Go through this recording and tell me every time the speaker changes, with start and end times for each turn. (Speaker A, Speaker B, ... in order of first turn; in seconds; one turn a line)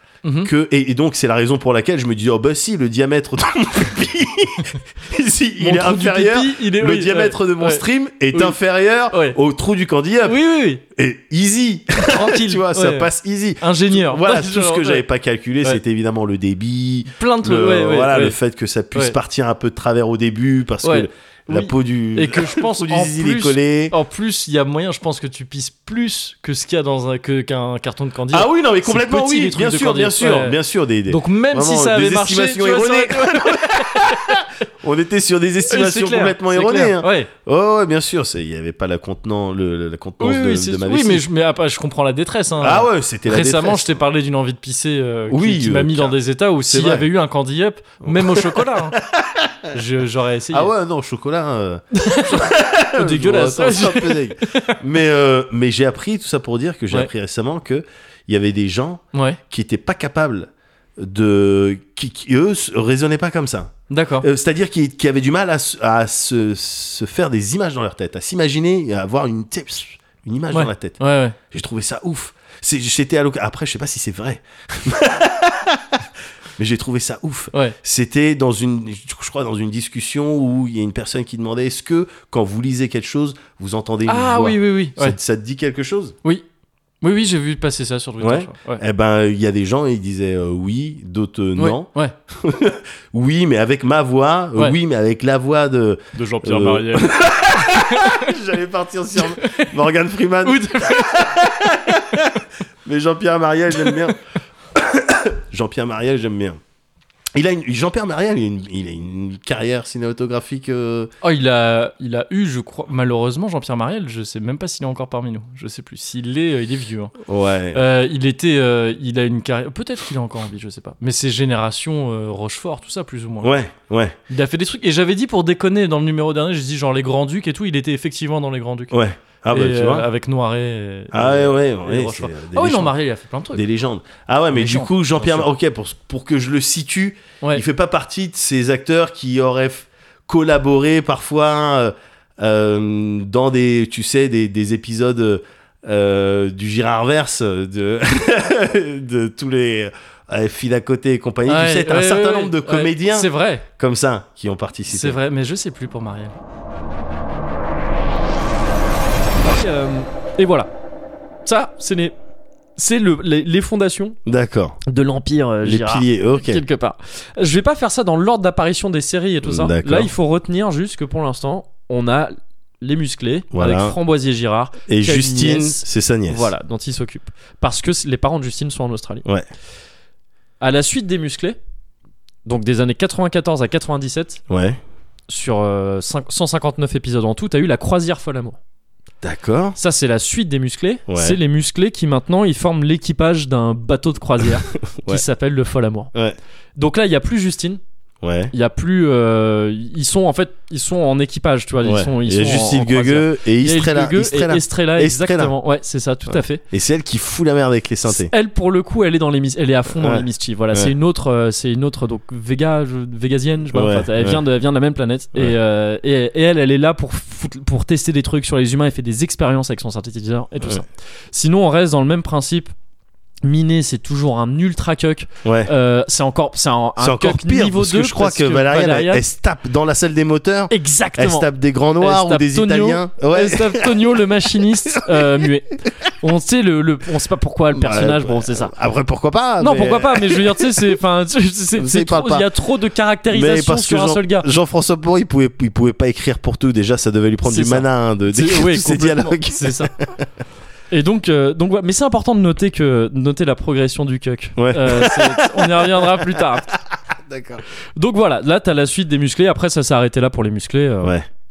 Speaker A: 0.2-0.5
Speaker B: 0.4-10.4
Speaker A: 5.6-8.6
Speaker A: 10.2-10.8
Speaker B: 10.9-23.9
Speaker A: 12.0-13.1
Speaker A: 13.6-15.0
Speaker A: 17.2-18.4
Speaker A: 20.8-30.6
Speaker B: 28.3-41.2
Speaker A: 31.1-34.5
Speaker A: 35.7-37.3
Speaker A: 40.2-49.0
Speaker B: 42.6-44.0
Speaker B: 45.3-47.1
Speaker B: 48.0-49.8
Speaker A: 49.7-50.7
Speaker B: 50.5-71.0
Speaker A: 52.0-54.7
Speaker A: 59.1-59.4
Speaker A: 63.9-64.3
Speaker A: 70.5-71.4
Speaker B: 71.5-76.1
Speaker B: 76.6-86.2
Speaker A: 84.1-85.2
Speaker A: 87.0-88.8
Speaker B: 88.2-104.2
Speaker A: 91.6-92.1
Speaker A: 96.2-98.2
Speaker C: 96.2-96.6
Speaker A: 99.4-99.7
Speaker A: 100.5-101.4
Speaker B: 104.7-106.6
Speaker B: 107.3-111.1
Speaker A: 111.2-117.1
Speaker B: 117.3-117.8
Speaker A: 117.7-123.5
Speaker B: 123.4-124.2
Speaker A: 124.3-129.0
Speaker B: 128.9-130.1
Speaker A: 129.5-133.6
Speaker B: 131.1-132.9
Speaker B: 133.5-155.2
Speaker A: 134.5-135.5
Speaker A: 151.5-153.6
Speaker A: 154.9-156.3
Speaker C: 159.4-160.7
Speaker C: 161.5-162.1
Speaker C: 162.8-164.2
Speaker B: 164.3-164.8
Speaker C: 164.9-179.3
Speaker B: 165.6-166.6
Speaker B: 169.4-170.1
Speaker B: 173.5-174.0
Speaker B: 174.9-176.5
Speaker C: 180.6-181.6
Speaker C: 182.4-184.4
Speaker B: 184.5-184.8
Speaker C: 185.3-188.6
Speaker B: 189.2-189.8
Speaker C: 189.8-196.1
Speaker B: 191.1-191.4
Speaker B: 194.9-195.2
Speaker C: 196.8-197.8
Speaker B: 198.2-198.5
Speaker C: 198.5-206.6
Speaker B: 201.8-205.6
Speaker B: 206.3-208.3
Speaker C: 208.1-222.7
Speaker B: 209.9-210.9
Speaker B: 213.7-214.4
Speaker C: 223.4-229.2
Speaker B: 225.4-225.7
Speaker B: 227.0-234.2
Speaker C: 230.7-231.5
Speaker C: 232.0-238.7
Speaker B: 234.9-235.5
Speaker B: 237.7-240.7
Speaker C: 239.6-244.5
Speaker B: 241.8-242.5
Speaker B: 243.3-250.2
Speaker C: 247.4-249.9
Speaker C: 250.9-256.8
Speaker B: 254.6-256.2
Speaker B: 256.9-257.6
Speaker C: 258.0-261.1
Speaker B: 261.0-261.3